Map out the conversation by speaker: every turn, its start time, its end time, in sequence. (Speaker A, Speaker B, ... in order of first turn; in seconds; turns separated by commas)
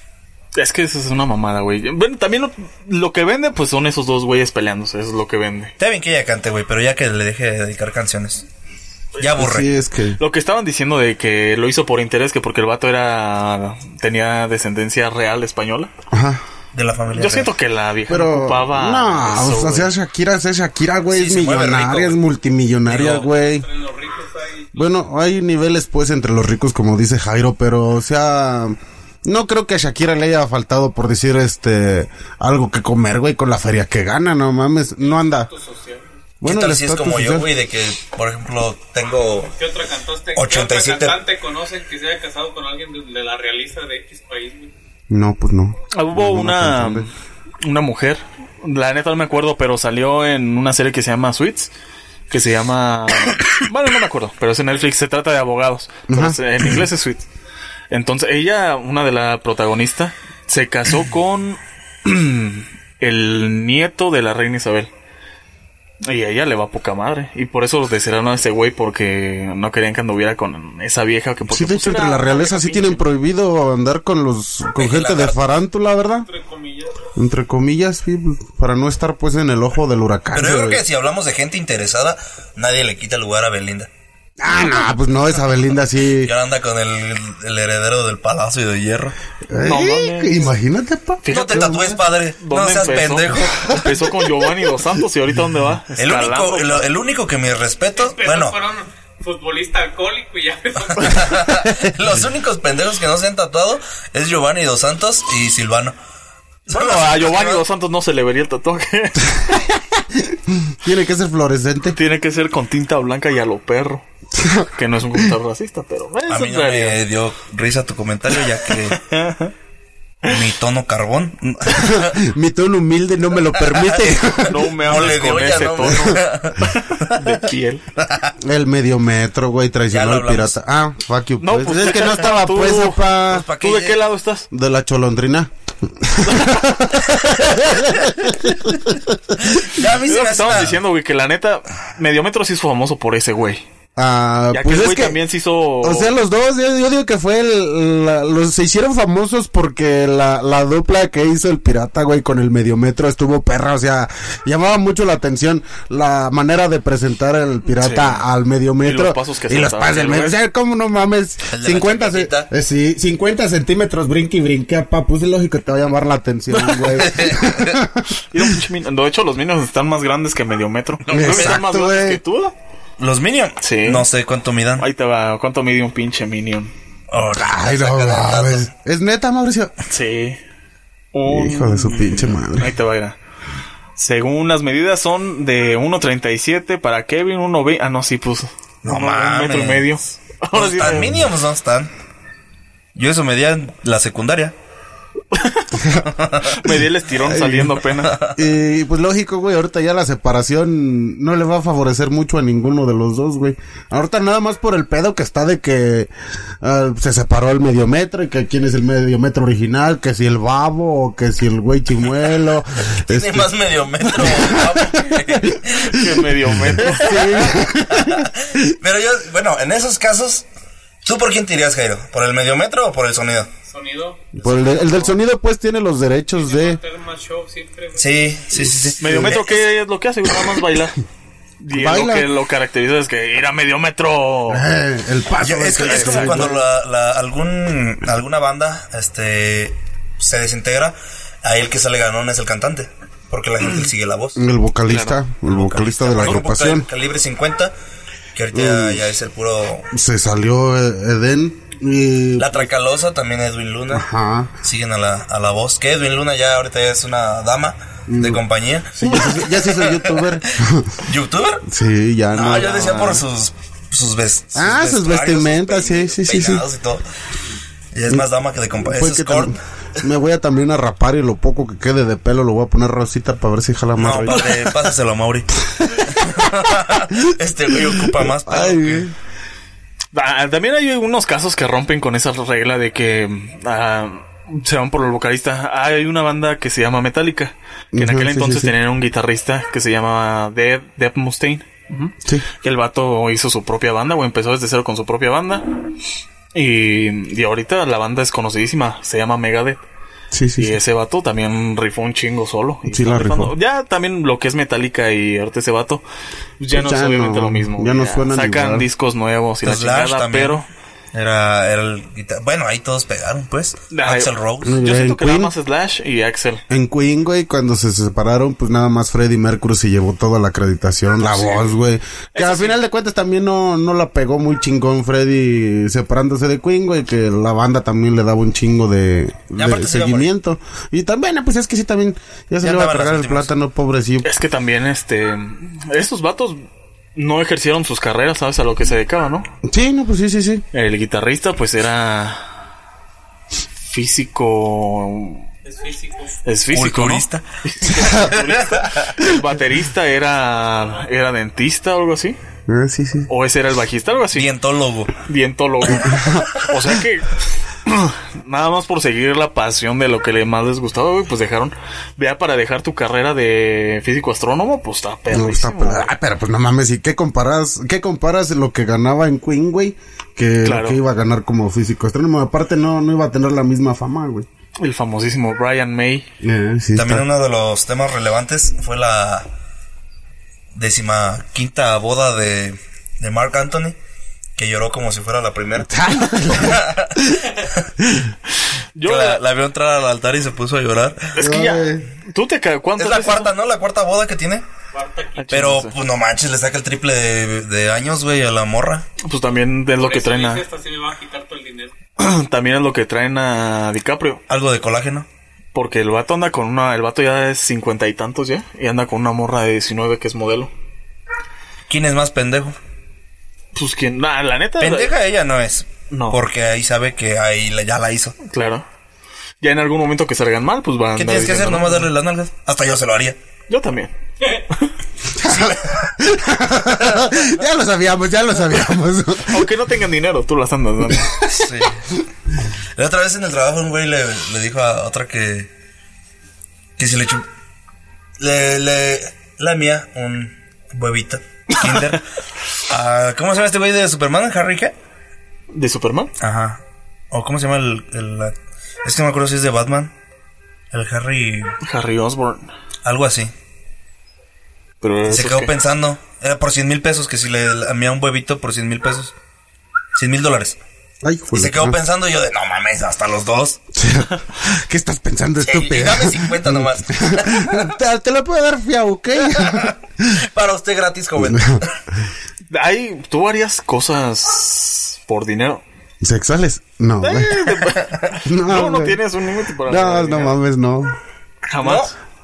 Speaker A: 0.6-5.7, Speaker B: 5.8-8.5, Speaker A: 9.2-9.4, Speaker B: 9.2-9.7, Speaker C: 9.4-10.2, Speaker A: 10.2-15.9, Speaker C: 16.1-16.4, Speaker B: 16.7-17.5, Speaker A: 17.1-19.9, Speaker C: 18.1-23.7, Speaker B: 21.1-22.2, Speaker B: 22.9-23.2, Speaker A: 22.9-23.2, Speaker D: 23.4-24.9, Speaker C: 24.8-35.5, Speaker D: 35.0-36.1, Speaker C: 36.4-37.5, Speaker B: 36.4-39.5, Speaker D: 39.6-44.7, Speaker B: 40.4-41.2, Speaker C: 45.1-47.1, Speaker A: 45.9-47.1, Speaker A: 47.6-51.7, Speaker A: 52.3-57.2, Speaker C: 56.1-56.8, Speaker A: 57.9-64.9, Speaker A: 66.0-73.1, Speaker C: 71.5-76.3, Speaker B: 74.8-75.4, Speaker D: 76.3-77.0, Speaker C: 77.2-80.8, Speaker B: 80.3-83.9, Speaker C: 84.4-86.3, Speaker B: 86.2-89.2, Speaker C: 89.5-91.9, Speaker A: 89.6-90.5, Speaker A: 91.2-96.9, Speaker B: 91.3-93.8, Speaker B: 96.0-98.6, Speaker D: 98.0-101.4, Speaker B: 100.9-106.0, Speaker B: 106.7-107.6, Speaker A: 106.7-109.7, Speaker C: 110.2-112.0, Speaker A: 111.9-114.0, Speaker C: 114.3-114.7, Speaker A: 114.7-117.0, Speaker B: 116.3-119.0, Speaker A: 118.7-119.5, Speaker B: 120.2-122.2, Speaker C: 121.7-124.7, Speaker B: 123.6-124.2, Speaker A: 124.4-127.8, Speaker B: 124.8-127.3, Speaker C: 125.9-126.1, Speaker B: 128.0-128.3, Speaker C: 128.4-133.5, Speaker B: 129.9-130.6, Speaker A: 131.4-134.5, Speaker B: 133.3-134.0, Speaker C: 134.5-139.0, Speaker A: 136.2-136.6, Speaker B: 137.2-137.6, Speaker B: 139.4-140.8, Speaker A: 139.8-143.6, Speaker C: 144.0-145.2, Speaker A: 144.5-146.2, Speaker C: 145.8-168.4, Speaker A: 157.8-158.2, Speaker A: 158.8-160.4, Speaker B: 161.5-162.5, Speaker A: 166.5-167.0, Speaker B: 166.9-167.8, Speaker A: 168.3-172.5, Speaker B: 171.1-171.6, Speaker C: 171.1-172.2, Speaker B: 173.0-174.9, Speaker A: 173.6-174.1, Speaker A: 174.8-176.7, Speaker B: 177.1-178.7, Speaker C: 177.4-179.7, Speaker A: 179.9-180.4, Speaker A: 181.1-183.2, Speaker C: 181.3-182.7, Speaker A: 184.0-191.2, Speaker B: 188.8-189.9, Speaker B: 190.5-191.9, Speaker B: 192.9-194.6, Speaker A: 195.3-195.8, Speaker C: 195.8-196.1, Speaker B: 196.1-196.6, Speaker A: 196.5-198.2, Speaker C: 197.3-197.8, Speaker B: 198.0-198.4, Speaker C: 198.3-206.1, Speaker C: 206.6-218.7, Speaker B: 213.1-216.0, Speaker A: 215.8-217.6, Speaker B: 217.5-220.5, Speaker B: 221.0-223.5, Speaker D: 223.7-224.3, Speaker C: 224.3-226.8, Speaker A: 224.5-225.1, Speaker D: 226.4-228.2, Speaker B: 228.0-229.6, Speaker C: 228.6-229.4, Speaker A: 229.0-231.0, Speaker A: 231.6-234.7, Speaker C: 231.7-232.3, Speaker C: 234.5-236.6, Speaker B: 235.4-244.4, Speaker A: 235.8-236.5, Speaker C: 244.4-246.9, Speaker A: 244.9-245.2, Speaker B: 245.5-247.7, Speaker A: 246.1-246.6, Speaker B: 248.3-249.9, Speaker C: 248.5-249.0, Speaker C: 249.9-252.6, Speaker B: 252.4-254.1, Speaker C: 253.9-254.5, Speaker B: 254.6-260.5, Speaker C: 258.1-258.4, Speaker C: 258.9-261.0, Speaker B: 261.0-261.6, Speaker C: 261.7-263.2, Speaker B: 262.3-267.0, Speaker A: 262.8-263.1, Speaker C: 264.6-266.6, Speaker B: 267.9-269.6, Speaker C: 268.8-274.8, Speaker B: 274.0-279.1, Speaker C: 277.3-279.1, Speaker A: 280.1-295.7, Speaker C: 287.9-288.7, Speaker A: 296.5-299.8, Speaker C: 300.3-300.8, Speaker A: 300.6-306.0, Speaker C: 302.9-303.5, Speaker A: 306.6-310.7, Speaker C: 306.7-308.9, Speaker B: 309.6-314.8, Speaker A: 313.9-316.6, Speaker C: 314.6-315.5, Speaker C: 316.7-334.3, Speaker A: 321.2-321.8, Speaker A: 322.3-322.8, Speaker B: 329.6-330.3, Speaker B: 332.6-333.5, Speaker A: 334.2-336.6, Speaker A: 337.1-339.5, Speaker C: 339.7-340.6, Speaker A: 340.7-342.5, Speaker A: 343.9-345.4, Speaker D: 345.6-346.4, Speaker A: 346.4-352.4, Speaker B: 346.7-349.2, Speaker C: 352.7-353.3, Speaker A: 353.3-354.6, Speaker B: 354.3-355.1, Speaker A: 355.2-366.1, Speaker C: 355.9-356.6, Speaker C: 365.3-374.5, Speaker A: 370.6-371.0, Speaker A: 374.8-376.3, Speaker C: 376.4-377.2, Speaker B: 376.9-379.5, Speaker B: 380.7-384.0, Speaker B: 384.6-385.9, Speaker C: 385.8-387.5, Speaker B: 386.5-387.9, Speaker C: 388.0-388.3, Speaker A: 388.9-389.4, Speaker B: 389.0-391.4, Speaker A: 391.4-393.5, Speaker C: 391.4-392.1, Speaker B: 393.0-394.6, Speaker D: 394.9-395.7, Speaker A: 395.4-395.9, Speaker B: 395.5-399.1, Speaker A: 399.2-400.6, Speaker D: 400.0-401.9, Speaker A: 402.2-404.4, Speaker B: 404.5-405.3, Speaker A: 405.7-410.7, Speaker B: 411.9-412.8, Speaker A: 413.8-415.1, Speaker B: 414.8-418.4, Speaker A: 416.1-416.4, Speaker A: 418.4-418.9, Speaker A: 419.6-422.1, Speaker B: 421.1-423.4, Speaker A: 423.7-424.9, Speaker C: 425.3-429.7, Speaker B: 425.4-426.1, Speaker B: 426.9-427.5, Speaker A: 429.5-431.4, Speaker B: 431.5-432.1, Speaker B: 433.0-435.7, Speaker B: 437.0-437.5, Speaker B: 438.4-442.2, Speaker B: 442.9-444.9, Speaker A: 445.7-446.3, Speaker B: 446.4-450.1, Speaker B: 450.9-451.8, Speaker A: 451.8-452.7, Speaker B: 453.0-453.5, Speaker A: 455.0-455.8, Speaker B: 455.3-459.3, Speaker B: 460.1-460.8, Speaker C: 461.2-462.0, Speaker B: 461.5-463.8, Speaker C: 463.9-470.4, Speaker B: 465.6-467.9, Speaker B: 469.5-472.0, Speaker C: 471.4-471.8, Speaker A: 472.7-475.8, Speaker C: 476.2-477.7, Speaker A: 477.2-480.6, Speaker C: 478.4-479.2, Speaker C: 479.9-481.2, Speaker A: 481.7-482.1, Speaker B: 481.8-482.1